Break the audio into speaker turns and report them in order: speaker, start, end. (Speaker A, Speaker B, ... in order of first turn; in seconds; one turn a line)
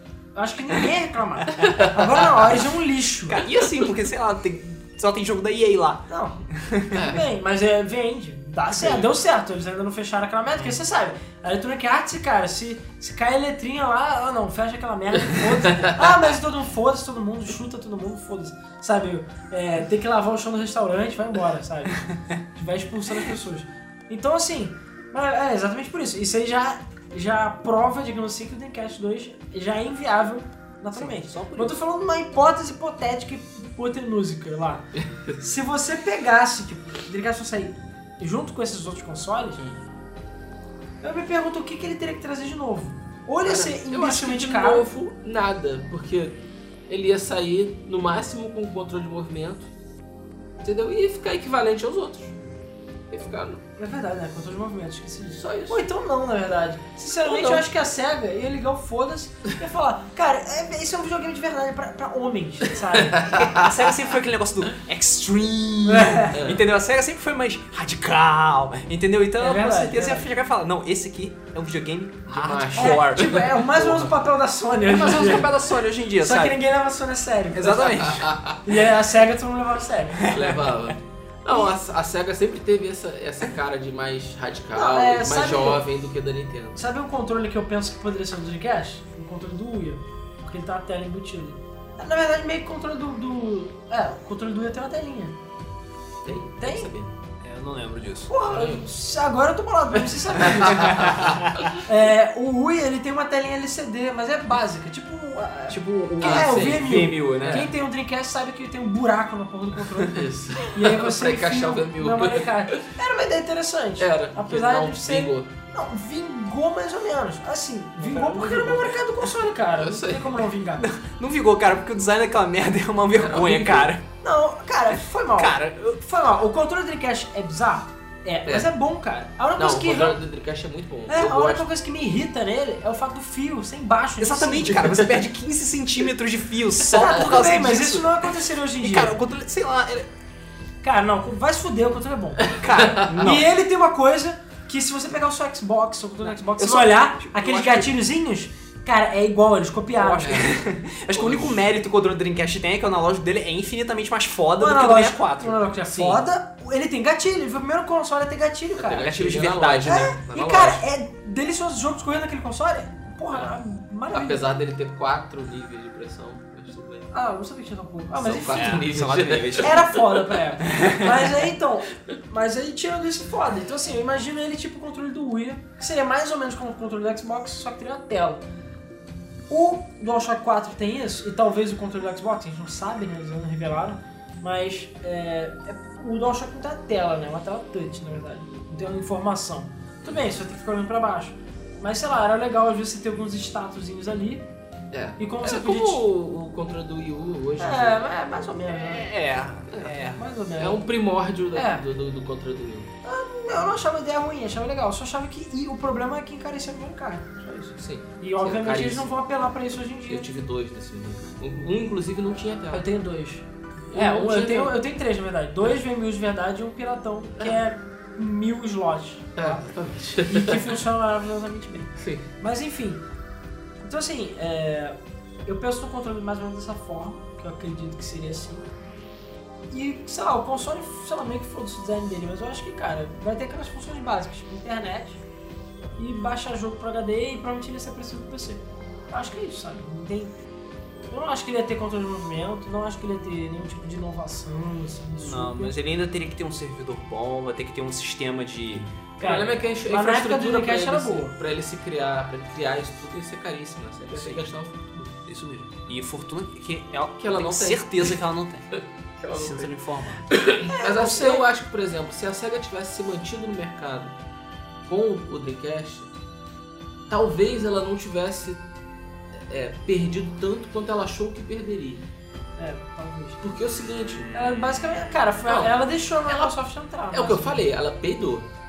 Speaker A: 0.3-3.5
Speaker B: 1.6-1.9
Speaker C: 3.3-7.2
Speaker A: 6.1-6.5
Speaker B: 6.9-7.2
Speaker A: 7.1-34.9
Speaker B: 8.8-9.0
Speaker B: 15.7-16.0
Speaker C: 31.0-31.8
Speaker B: 35.0-35.4
Speaker A: 35.4-39.6
Speaker A: 41.0-44.9
Speaker B: 43.4-49.7
Speaker B: 50.6-52.4
Speaker B: 53.1-53.6
Speaker A: 53.8-63.3
Speaker B: 55.4-55.9
Speaker B: 57.3-57.6
Speaker B: 63.1-63.8
Speaker C: 63.3-73.4
Speaker A: 65.8-66.4
Speaker B: 66.3-66.6
Speaker A: 69.4-70.3
Speaker B: 72.3-74.1
Speaker A: 72.8-75.5
Speaker C: 74.9-76.5
Speaker A: 76.2-78.0
Speaker C: 77.5-78.3
Speaker B: 77.9-78.6
Speaker A: 78.7-80.3
Speaker C: 80.2-80.6
Speaker B: 80.3-86.8
Speaker A: 84.8-85.8
Speaker A: 86.8-95.4
Speaker B: 96.2-97.1
Speaker A: 96.3-96.9
Speaker C: 97.4-98.3
Speaker A: 98.3-120.9
Speaker B: 98.4-98.9
Speaker B: 100.2-101.8
Speaker C: 100.7-101.7
Speaker C: 105.7-107.7
Speaker B: 106.2-107.7
Speaker B: 110.0-112.8
Speaker B: 114.0-115.5
Speaker B: 118.0-120.5
Speaker C: 120.8-124.0
Speaker B: 123.2-123.9
Speaker A: 124.2-130.2
Speaker C: 124.9-126.0
Speaker B: 129.6-131.7
Speaker A: 131.1-134.9
Speaker C: 134.2-140.1
Speaker A: 136.9-139.1
Speaker A: 140.8-142.6
Speaker B: 142.5-143.4
Speaker C: 142.6-143.4
Speaker A: 143.2-150.4
Speaker C: 146.5-147.9
Speaker B: 150.1-151.6
Speaker C: 150.1-156.2
Speaker A: 154.6-159.1
Speaker B: 158.8-160.8
Speaker C: 159.0-160.1
Speaker A: 159.8-164.5
Speaker B: 164.1-167.1
Speaker A: 167.1-168.9
Speaker B: 168.1-170.3
Speaker C: 168.5-169.8
Speaker A: 169.6-178.4
Speaker C: 170.6-171.1
Speaker A: 179.5-194.5
Speaker B: 194.9-198.0
Speaker A: 195.2-196.0
Speaker A: 197.6-199.1
Speaker C: 198.7-200.2
Speaker B: 199.7-200.1
Speaker A: 199.9-200.9
Speaker B: 200.6-202.9
Speaker A: 201.5-201.8
Speaker A: 203.0-210.3
Speaker B: 207.8-209.1
Speaker B: 210.1-212.9
Speaker A: 212.7-223.0
Speaker B: 213.9-214.8
Speaker B: 219.4-220.8
Speaker B: 222.0-222.3
Speaker A: 223.8-228.7
Speaker A: 229.7-235.2
Speaker A: 236.0-240.3
Speaker A: 241.1-245.8
Speaker C: 245.2-248.9
Speaker B: 249.2-254.9
Speaker A: 249.2-251.3
Speaker C: 254.1-254.5
Speaker C: 255.2-258.7
Speaker B: 257.2-258.1
Speaker B: 258.8-259.7
Speaker C: 259.3-260.2
Speaker B: 260.3-264.2
Speaker A: 260.7-261.5
Speaker B: 264.9-266.1
Speaker B: 267.1-268.6
Speaker B: 269.5-272.1
Speaker A: 272.6-273.4
Speaker B: 273.4-274.5
Speaker A: 274.3-277.6
Speaker B: 275.5-276.6
Speaker B: 277.1-278.5